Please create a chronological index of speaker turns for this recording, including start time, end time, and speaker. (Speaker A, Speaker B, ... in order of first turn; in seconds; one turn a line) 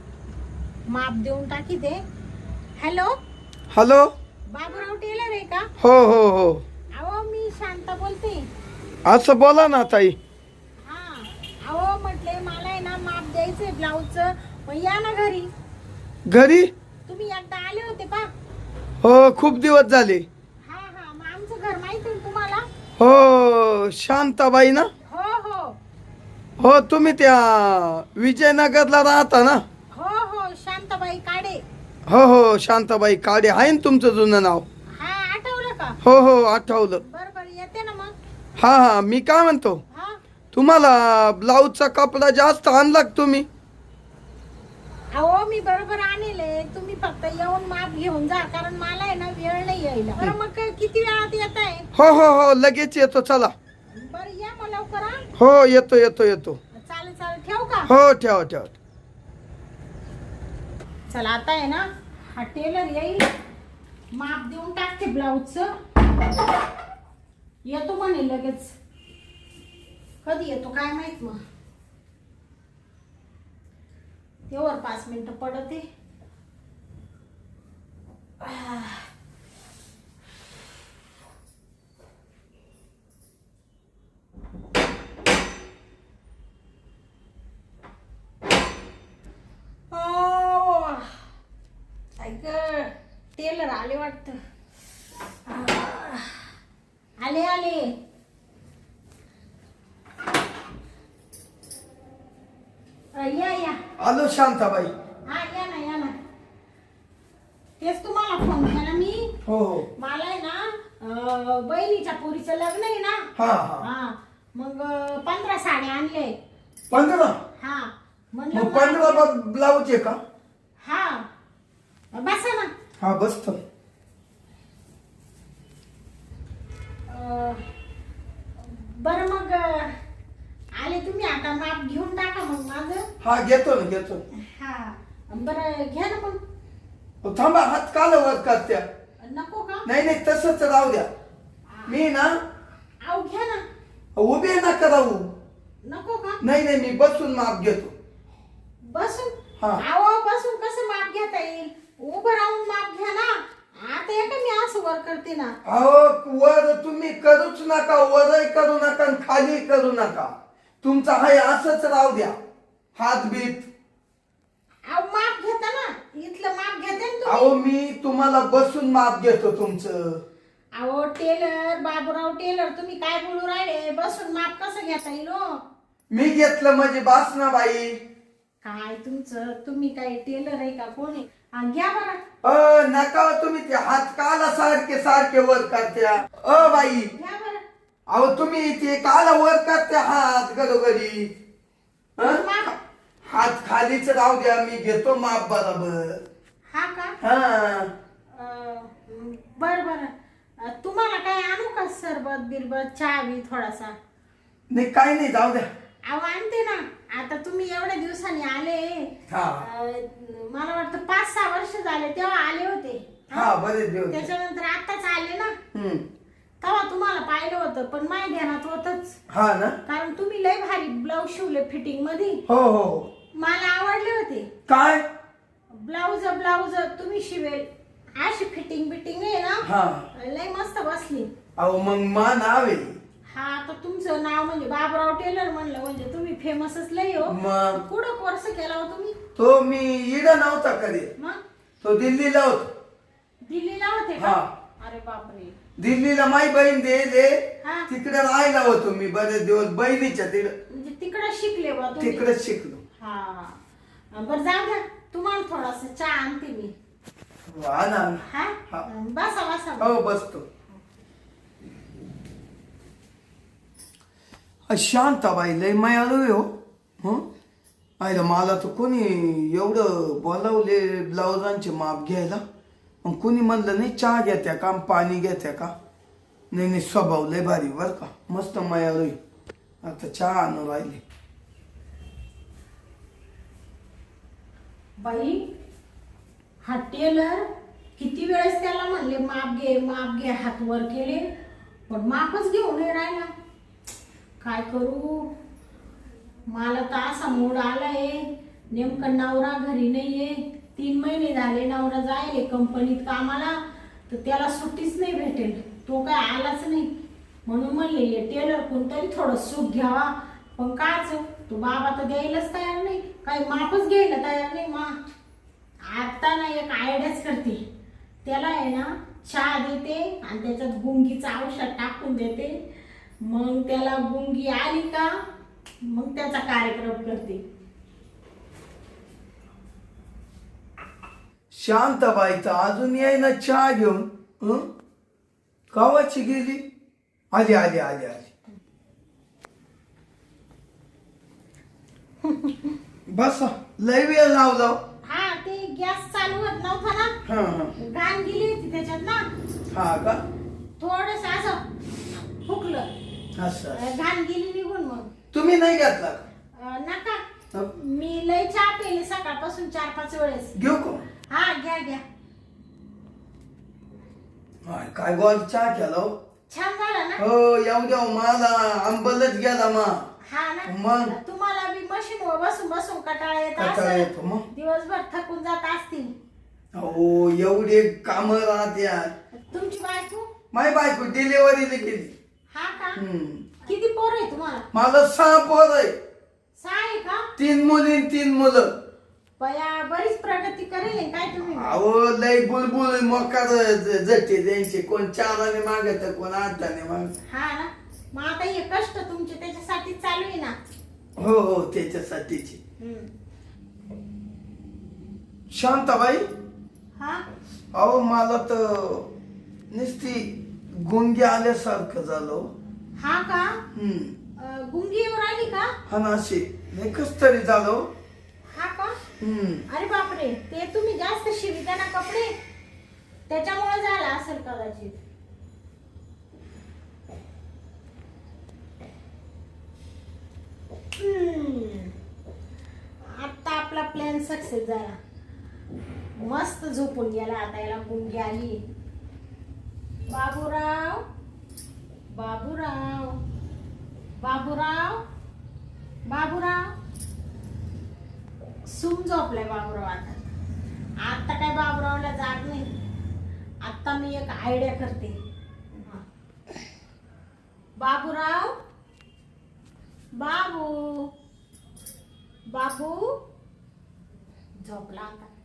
Speaker A: 0.9-2.0
Speaker A: 2.8-3.1
Speaker B: 3.7-4.1
Speaker A: 4.5-5.7
Speaker B: 5.8-6.6
Speaker A: 6.9-8.5
Speaker B: 9.0-10.2
Speaker A: 10.8-15.5
Speaker B: 16.3-16.7
Speaker A: 17.1-18.3
Speaker B: 19.0-20.2
Speaker A: 20.6-22.6
Speaker B: 23.0-24.9
Speaker A: 25.1-25.8
Speaker B: 26.6-29.6
Speaker A: 29.9-31.6
Speaker B: 32.1-34.6
Speaker A: 35.0-36.0
Speaker B: 36.0-37.0
Speaker A: 37.0-38.1
Speaker B: 38.6-39.8
Speaker A: 39.9-40.2
Speaker B: 40.5-43.5
Speaker A: 45.1-51.9
Speaker B: 51.9-53.5
Speaker A: 53.9-55.3
Speaker B: 55.4-56.6
Speaker A: 56.7-57.9
Speaker B: 57.9-58.7
Speaker A: 61.1-63.3
Speaker A: 64.1-65.7
Speaker A: 67.6-68.8
Speaker A: 70.2-71.4
Speaker A: 74.5-75.8
Speaker A: 78.4-79.0
Speaker A: 89.9-91.2
Speaker A: 92.2-94.4
Speaker A: 95.5-96.5
Speaker A: 97.2-97.9
Speaker A: 103.1-103.8
Speaker B: 104.0-104.9
Speaker A: 105.3-106.1
Speaker A: 107.8-109.3
Speaker B: 109.5-109.9
Speaker A: 110.0-113.3
Speaker B: 113.3-113.9
Speaker A: 113.8-116.3
Speaker B: 116.9-117.4
Speaker A: 117.6-119.3
Speaker B: 118.5-120.2
Speaker A: 120.8-121.3
Speaker A: 122.1-122.7
Speaker B: 123.0-123.6
Speaker A: 127.1-127.6
Speaker A: 128.6-129.9
Speaker A: 130.7-133.0
Speaker B: 133.2-134.2
Speaker A: 134.4-136.4
Speaker B: 137.2-138.8
Speaker A: 139.2-139.8
Speaker B: 139.8-141.1
Speaker A: 141.7-142.0
Speaker B: 141.9-142.3
Speaker A: 143.0-143.6
Speaker B: 144.2-145.3
Speaker A: 145.8-146.4
Speaker B: 146.4-147.9
Speaker A: 148.8-155.6
Speaker B: 149.6-149.8
Speaker B: 155.6-162.3
Speaker B: 162.9-163.7
Speaker A: 164.9-167.6
Speaker B: 167.2-170.2
Speaker A: 170.7-175.4
Speaker B: 176.1-178.0
Speaker A: 178.6-182.2
Speaker B: 182.4-187.1
Speaker A: 186.5-187.6
Speaker B: 188.1-191.3
Speaker B: 192.2-192.7
Speaker A: 192.2-192.8
Speaker B: 193.2-196.2
Speaker A: 196.7-197.2
Speaker B: 197.2-197.9
Speaker A: 198.3-203.9
Speaker B: 204.7-205.7
Speaker A: 206.1-213.6
Speaker B: 209.3-209.7
Speaker B: 213.3-214.3
Speaker A: 214.1-215.6
Speaker B: 215.7-216.0
Speaker A: 216.6-219.2
Speaker B: 219.3-219.8
Speaker A: 219.8-222.4
Speaker B: 222.5-223.1
Speaker A: 223.3-224.5
Speaker B: 224.7-225.0
Speaker A: 225.7-227.7
Speaker A: 228.2-231.3
Speaker B: 229.6-230.1
Speaker B: 231.6-233.0
Speaker A: 233.3-239.2
Speaker B: 237.2-237.8
Speaker B: 239.3-241.1
Speaker B: 241.8-242.7
Speaker A: 243.4-245.5
Speaker B: 244.2-244.5
Speaker B: 245.8-250.5
Speaker A: 247.6-247.9
Speaker A: 250.7-252.3
Speaker B: 252.0-252.8
Speaker A: 253.0-253.6
Speaker A: 254.1-256.7
Speaker B: 257.5-258.9
Speaker A: 258.2-259.9
Speaker B: 259.8-260.4
Speaker B: 264.7-267.2
Speaker B: 268.0-272.4
Speaker B: 273.0-275.7
Speaker B: 276.5-279.2
Speaker B: 279.8-281.0
Speaker A: 285.0-285.5
Speaker A: 286.6-291.2
Speaker A: 291.9-293.3
Speaker A: 294.4-295.3
Speaker A: 296.5-306.9
Speaker A: 307.4-314.9
Speaker A: 315.9-317.6
Speaker A: 318.2-322.5
Speaker A: 323.2-325.1
Speaker A: 325.8-327.4
Speaker B: 331.5-334.7
Speaker B: 335.7-336.6
Speaker B: 337.3-338.3
Speaker A: 342.2-342.8
Speaker B: 343.1-344.8
Speaker A: 345.0-347.2
Speaker B: 347.2-347.7
Speaker A: 347.8-349.3
Speaker B: 349.7-350.2
Speaker A: 350.8-351.7
Speaker A: 352.4-352.9
Speaker B: 353.4-353.8
Speaker A: 353.7-355.1
Speaker B: 355.3-356.3
Speaker A: 356.6-360.6
Speaker B: 360.5-361.0
Speaker A: 361.3-362.0
Speaker B: 364.6-366.1
Speaker A: 366.5-367.2
Speaker B: 367.2-370.1
Speaker A: 370.2-376.1
Speaker B: 370.7-371.1
Speaker B: 373.6-374.5
Speaker B: 376.7-379.1
Speaker A: 379.3-380.3
Speaker B: 380.5-382.1
Speaker A: 382.5-383.0
Speaker B: 382.9-383.5
Speaker A: 383.6-384.6
Speaker B: 384.7-386.0
Speaker A: 386.6-387.3
Speaker B: 387.4-388.7
Speaker A: 389.4-391.8
Speaker B: 391.5-397.1
Speaker A: 397.3-400.6
Speaker B: 401.2-402.6
Speaker A: 402.8-403.1
Speaker B: 405.5-406.3
Speaker A: 407.0-407.2
Speaker B: 407.7-409.1
Speaker B: 409.7-412.5
Speaker A: 413.0-413.6
Speaker B: 413.7-414.1
Speaker A: 414.4-415.7
Speaker B: 415.9-417.9
Speaker A: 418.5-419.0
Speaker B: 419.2-419.6
Speaker A: 419.7-422.3
Speaker A: 423.3-425.0
Speaker A: 430.9-431.9
Speaker A: 433.1-435.0
Speaker A: 436.2-438.6
Speaker A: 440.1-441.0
Speaker A: 442.1-443.2
Speaker A: 444.2-445.0
Speaker A: 446.1-446.7
Speaker A: 448.7-450.2
Speaker A: 451.0-452.7
Speaker A: 453.6-455.2
Speaker A: 455.7-456.0
Speaker A: 457.8-458.5
Speaker A: 460.2-461.1
Speaker A: 462.5-463.1
Speaker A: 464.6-465.3